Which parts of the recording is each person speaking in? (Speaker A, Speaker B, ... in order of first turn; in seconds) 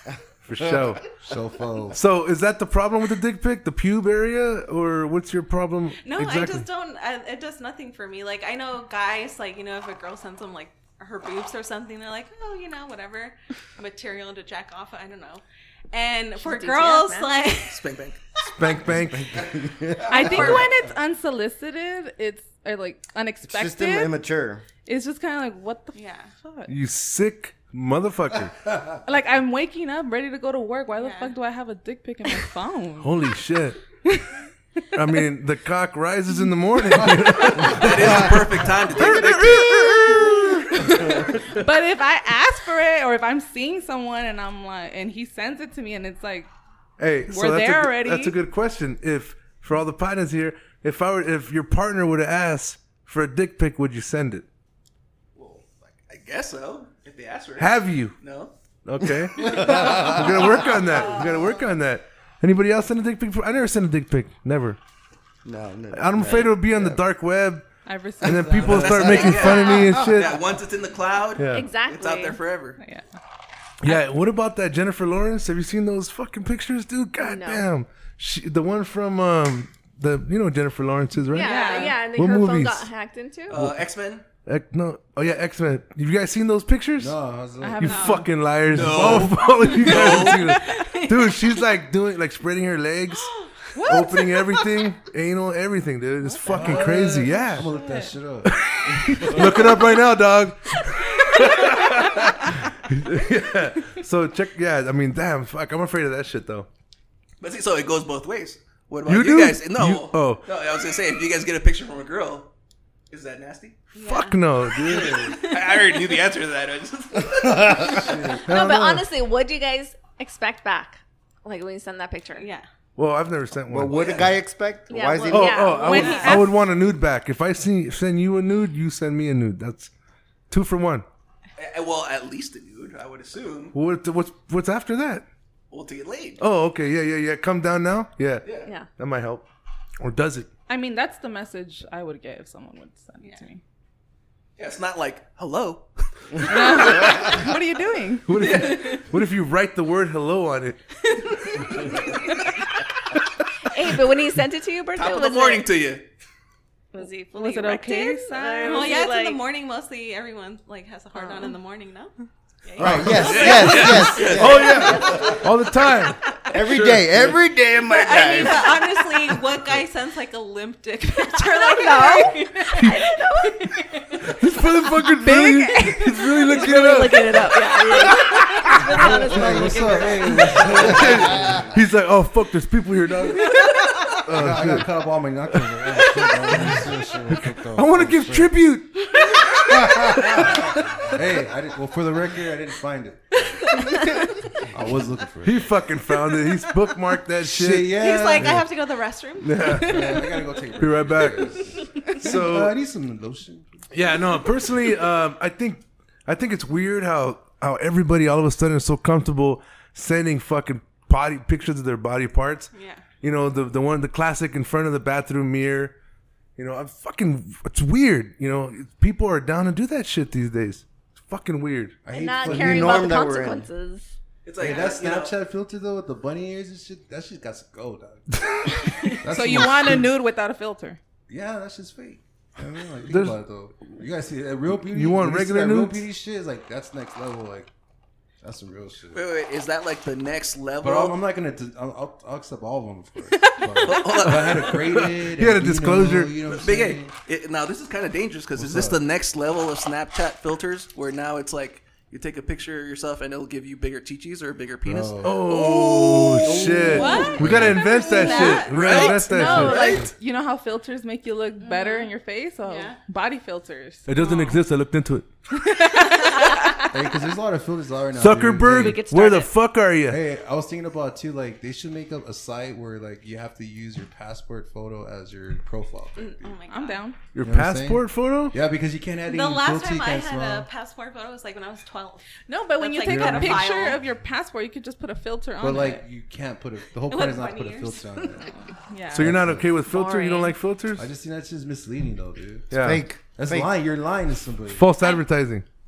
Speaker A: 0.4-1.1, 1.9-6.7, 18.4-19.5, 26.7-28.6, 33.0-33.8, 34.9-41.6, 47.0-54.5, 57.6-58.1, 58.8-64.8, 65.9-67.7, 68.2-70.5, 71.3-71.7, 73.8-82.9, 83.5-83.8, 84.5-87.2, 87.8-93.3, 93.8-97.7, 98.4-106.7, 109.0-110.4, 114.0-115.3, 118.5-119.1, 123.0-124.3, 125.3-129.9, 130.5-131.1, 133.7-135.2, 136.4-139.4, 140.0-140.5, 148.2-151.3, 163.7-167.0, 174.2-178.9, 180.6-184.9, 185.5-190.8, 195.4-198.6, 199.4-200.2, 200.8-202.8, 203.9-212.7, 213.2-215.9, 216.6-222.0, 233.1-233.4, 234.7-236.1, 244.7-246.4, 255.2-260.0, 264.1-265.3, 268.1-270.2, 277.3-278.6, 289.1-291.1, 292.7-293.0, 294.7-295.6
Speaker B: 1.1-2.0, 20.1-20.6, 68.3-69.4, 87.0-87.9, 88.8-89.3, 96.5-99.8, 117.7-118.5, 162.8-163.1, 166.8-167.3, 178.9-181.7, 184.3-188.5, 189.6-193.8, 194.6-195.6, 197.4-198.6, 199.8-203.8, 222.0-223.1, 224.6-230.1, 231.3-237.7, 238.4-239.3, 240.8-247.1, 248.6-249.0, 254.8-257.8, 259.6-260.0, 266.9-269.1, 270.0-276.6, 277.4-280.7, 283.1-283.6, 285.6-288.5, 289.1-289.8, 290.9-294.9
Speaker C: 6.0-17.8, 25.9-26.3, 30.9-31.3, 81.4-81.9, 87.8-88.2, 90.0-91.5, 93.2-94.1, 113.9-116.2, 122.3-122.6, 125.8-126.4, 158.6-162.1, 162.7-163.7, 164.3-165.1, 167.8-173.8, 197.9-200.2, 212.7-213.0, 256.8-259.1, 261.6-263.0, 264.2-264.5, 276.1-277.0, 279.2-284.0, 287.0-288.4, 294.9-295.3
Speaker D: 16.4-17.4, 69.3-69.9, 71.5-72.4, 77.2-77.7, 81.3-83.6, 118.5-122.5, 124.9-126.4, 153.6-155.7, 156.9-159.4, 161.1-161.5, 164.8-165.2, 171.2-174.2, 176.4-180.8, 222.1-224.1, 268.7-269.5, 289.8-290.5
Speaker E: 17.6-18.2, 37.5-40.1, 55.3-58.5, 68.6-72.8, 83.5-84.2, 88.7-90.5, 107.4-112.5, 113.1-113.8, 114.9-118.4, 123.9-124.3, 131.6-133.7, 135.7-136.4, 138.4-138.7, 144.6-146.9, 148.4-149.0, 154.9-156.0, 162.9-164.8, 224.4-225.3, 239.1-241.2, 243.8-244.8, 246.5-256.5, 258.4-260.0
Speaker F: 18.9-20.6, 23.4-24.6, 65.4-67.0, 123.7-125.8, 162.8-165.4, 166.5-169.3, 222.4-223.7, 292.7-293.7
Speaker G: 20.1-24.1, 24.9-26.7, 29.0-33.1, 34.0-34.4, 40.8-46.5, 47.3-48.4, 67.8-68.9, 72.8-73.0, 81.4-82.0, 87.6-88.3, 93.7-94.3, 96.2-98.1, 125.8-126.6, 140.7-143.6, 146.4-148.6, 157.3-158.9, 175.2-176.7, 229.1-231.0, 256.9-257.3, 258.1-264.5, 265.5-266.9, 276.7-277.2, 282.5-286.0, 288.9-289.4